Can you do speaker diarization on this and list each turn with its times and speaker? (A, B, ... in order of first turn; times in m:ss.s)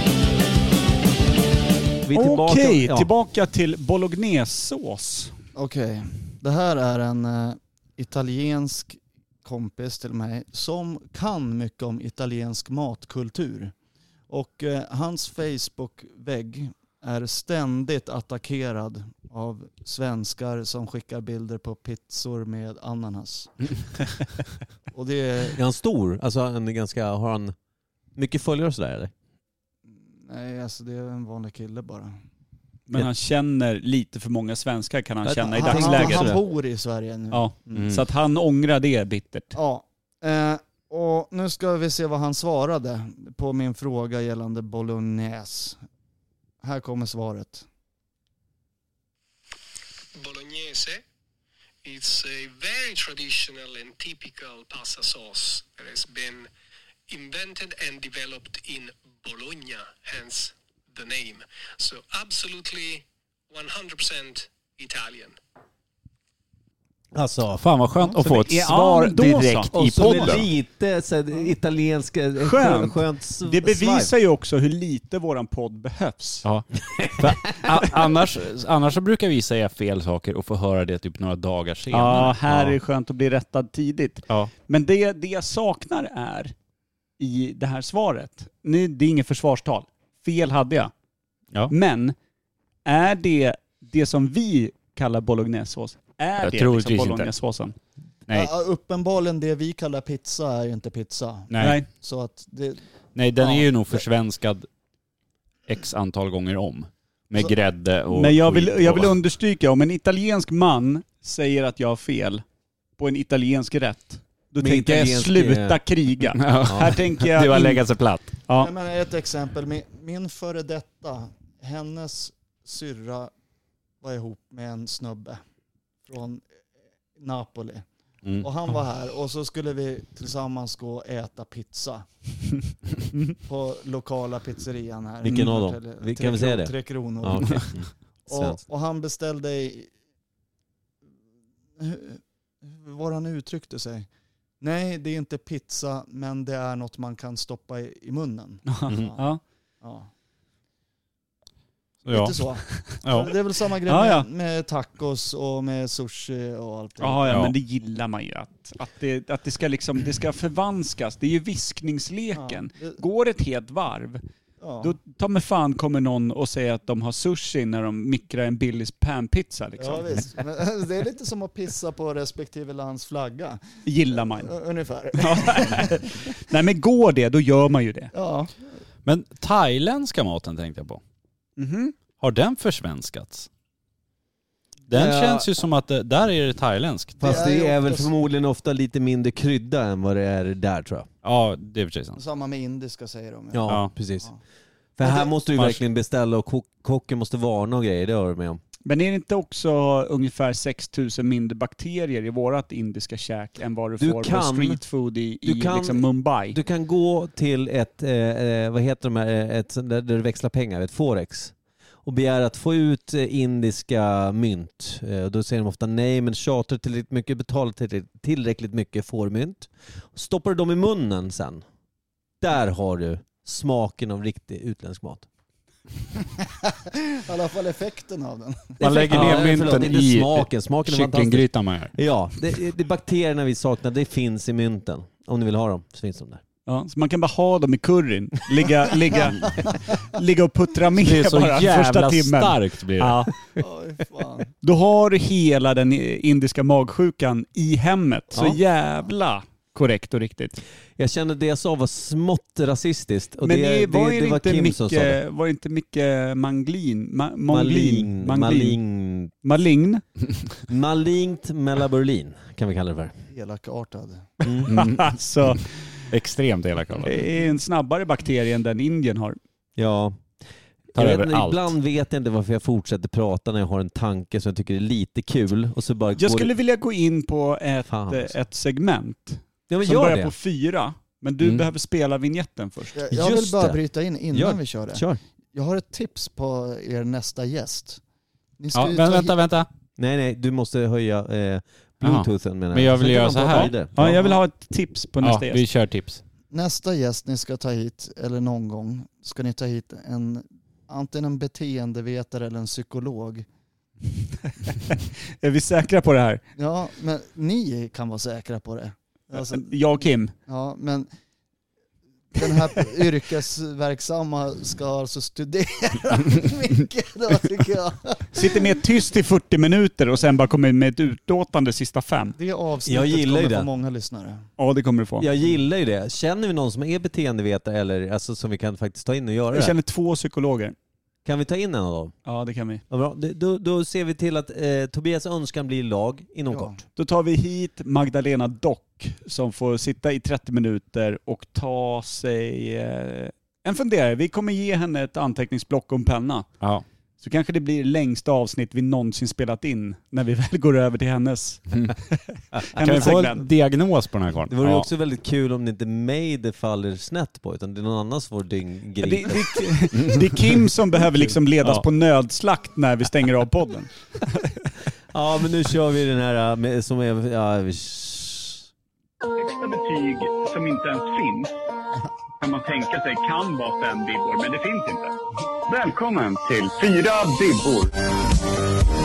0:02.0-0:03.1 A
0:02.1-0:05.3 B
0:05.5-0:13.7 C
0:14.3-0:24.1 C
0:24.9-0:25.6 C
0:25.5-0:27.5 A
0:28.1-0:29.1 A
0:30.1-0:32.2 C
0:32.9-0:36.3 B
0:35.2-0:36.4 A
0:35.5-0:37.9 C
0:37.3-0:39.5 B
0:37.7-0:38.0 D
0:39.5-0:45.8 C
0:46.6-0:47.6 C
0:50.2-0:51.0 E
0:51.8-0:56.5 E
0:57.1-1:05.4 E
1:07.1-1:07.6 A
1:07.6-1:10.4 D
1:08.1-1:10.4 B
1:09.7-1:14.1 A
1:12.4-1:16.4 B
1:16.4-1:22.8 D
1:16.9-1:17.4 A
1:21.9-1:26.5 B
1:27.2-1:30.9 B
1:31.7-1:32.1 B
1:32.8-1:37.7 B
1:36.4-1:37.3 D
1:38.3-1:42.8 C
1:41.5-1:41.8 D
1:41.6-1:41.9 B
1:43.1-1:44.7 D
1:43.4-1:44.0 C
1:45.7-1:49.1 D
1:48.1-1:52.4 B
1:53.0-1:57.8 B
1:54.6-1:55.8 A
1:56.4-1:58.3 D
1:56.6-1:57.0 A
1:58.5-1:58.7 B
1:58.6-2:03.3 C
2:04.0-2:05.4 C
2:06.0-2:06.4 C
2:07.2-2:07.8 C
2:08.4-2:12.0 C
2:13.4-2:19.9 C
2:15.2-2:18.6 A
2:21.8-2:24.1 C
2:24.6-2:29.2 C
2:28.7-2:29.4 B
2:28.9-2:29.1 D
2:29.8-2:30.1 C
2:32.0-2:33.3 D
2:32.1-2:37.3 C
2:33.9-2:34.2 B
2:37.0-2:44.2 B
2:42.3-2:43.0 C
2:44.6-2:44.9 C
2:44.8-2:50.3 B
2:49.8-2:56.1 C
2:53.8-2:54.5 B
2:55.1-2:58.1 B
2:58.1-2:58.5 C
2:59.0-3:01.0 D
3:01.6-3:01.9 B
3:02.2-3:03.5 D
3:04.9-3:07.4 D
3:04.9-3:05.5 A
3:07.2-3:11.1 A
3:07.2-3:08.1 C
3:11.2-3:12.2 D
3:12.2-3:14.4 C
3:13.5-3:14.3 A
3:13.7-3:13.9 D
3:15.0-3:18.6 A
3:18.8-3:26.6 B
3:24.0-3:24.8 A
3:25.4-3:41.6 A
3:42.4-3:45.3 A
3:46.6-3:49.3 C
3:48.8-3:51.9 D
3:48.8-3:56.4 A
3:49.1-3:49.6 B
3:56.7-4:03.3 B
4:01.0-4:03.3 D
4:03.6-4:04.5 C
4:04.6-4:10.6 B
4:11.0-4:15.2 A
4:13.4-4:18.8 B
4:17.5-4:19.3 A
4:19.4-4:20.0 B
4:20.7-4:23.1 A
4:23.3-4:24.4 C
4:24.4-4:24.7 A
4:24.7-4:25.7 B
4:24.7-4:25.1 D
4:26.1-4:27.2 D
4:27.0-4:29.4 B
4:29.8-4:30.3 A
4:30.9-4:31.7 D
4:30.9-4:36.5 A
4:36.2-4:43.0 B
4:37.9-4:38.3 A
4:39.7-4:40.3 A
4:43.0-4:48.0 C
4:43.1-4:43.8 A
4:44.3-4:45.2 A
4:48.6-4:49.3 C
4:48.7-4:49.7 D
4:50.0-4:53.9 A
4:52.0-4:54.1 D
4:53.9-4:55.6 B
4:55.2-4:56.2 D
4:56.5-5:03.4 C
5:04.6-5:06.4 B
5:06.6-5:09.7 C
5:09.3-5:10.3 B
5:10.4-5:11.1 C
5:12.3-5:18.6 C
5:18.3-5:22.4 B
5:22.4-5:24.5 C
5:22.8-5:23.7 A
5:24.6-5:25.3 B
5:25.2-5:29.7 A
5:29.5-5:30.7 B
5:31.2-5:32.1 A
5:32.2-5:32.8 B
5:32.9-5:36.8 A
5:36.5-5:36.8 C
5:37.0-5:46.6 B
5:47.2-5:53.5 B
5:52.8-5:54.9 D
5:54.5-5:59.7 A
5:59.0-6:03.9 B
6:05.1-6:08.6 A
6:09.4-6:11.5 F
6:12.4-6:15.1 F
6:15.7-6:17.9 F